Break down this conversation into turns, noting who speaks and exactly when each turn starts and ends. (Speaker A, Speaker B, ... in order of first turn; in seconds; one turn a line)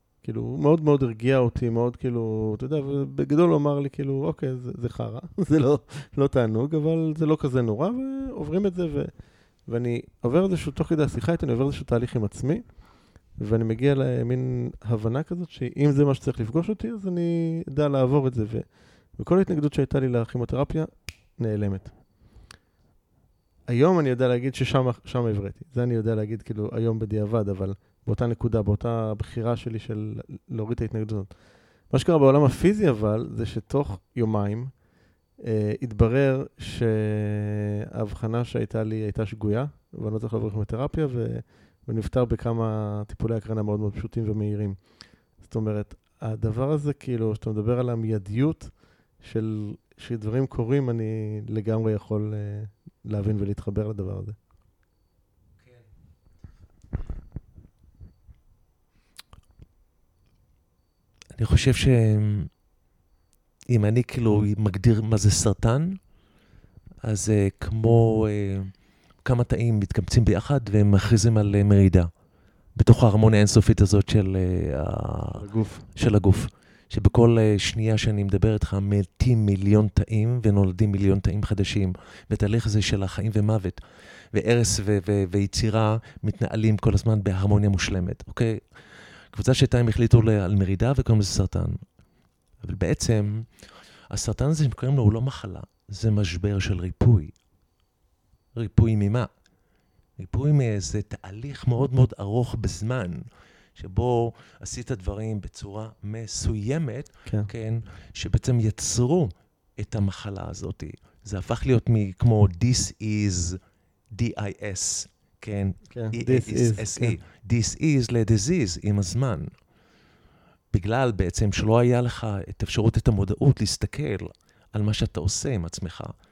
Speaker A: 0.2-21.9
Speaker A: 23.7-34.7
Speaker A: 35.4-54.4
Speaker B: 55.6-55.9
Speaker B: 61.3-62.5
Speaker B: 63.7-66.0
Speaker B: 67.0-68.7
Speaker B: 69.2-72.1
Speaker B: 72.8-75.4
Speaker A: 75.3-75.9
Speaker B: 75.9-83.8
Speaker B: 84.3-88.6
Speaker B: 89.3-91.8
Speaker B: 92.6-93.5
Speaker B: 94.1-97.3
Speaker B: 98.5-99.3
Speaker B: 100.2-103.2
Speaker B: 103.7-113.6
Speaker B: 114.1-119.5
Speaker A: 115.9-117.2
Speaker B: 120.7-126.1